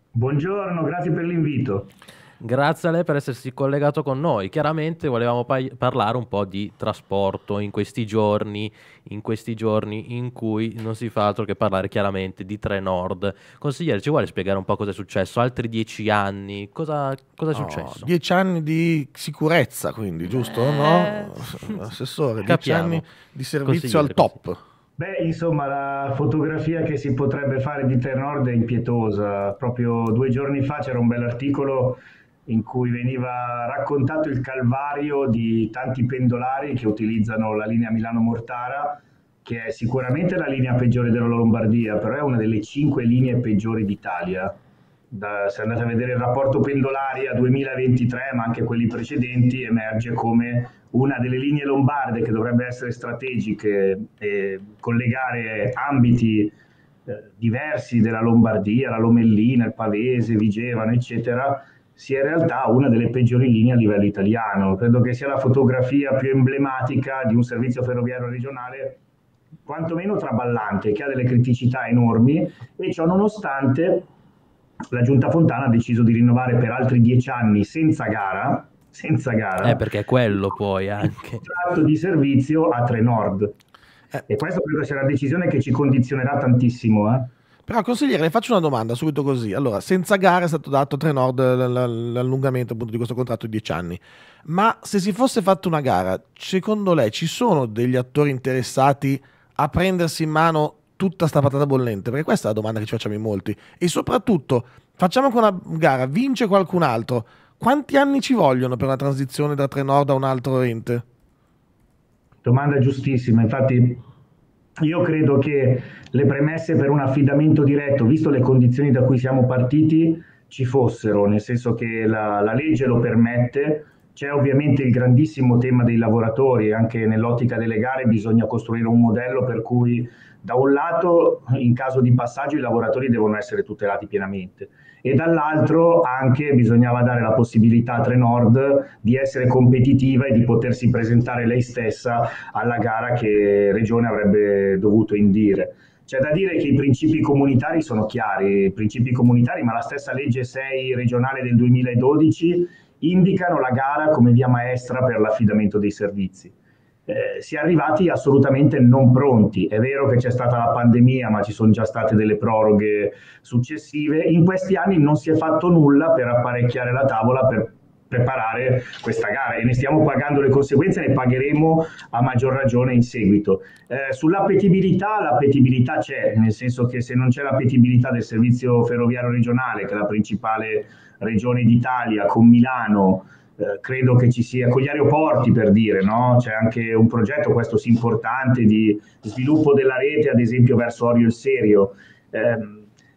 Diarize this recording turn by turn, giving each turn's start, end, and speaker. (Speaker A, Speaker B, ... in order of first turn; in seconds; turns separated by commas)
Speaker A: 0.1-1.9, Speaker B: 2.4-18.1, Speaker C: 17.5-24.6, Speaker B: 20.6-21.8, Speaker B: 22.4-23.1, Speaker B: 23.6-24.3, Speaker A: 25.0-44.6, Speaker A: 45.1-56.5, Speaker A: 57.1-69.0, Speaker A: 69.7-74.1, Speaker A: 74.9-79.8, Speaker B: 79.6-81.5, Speaker A: 81.4-83.5, Speaker A: 84.3-87.3, Speaker C: 87.7-111.0, Speaker A: 112.4-114.0, Speaker A: 114.8-156.5, Speaker A: 157.1-192.9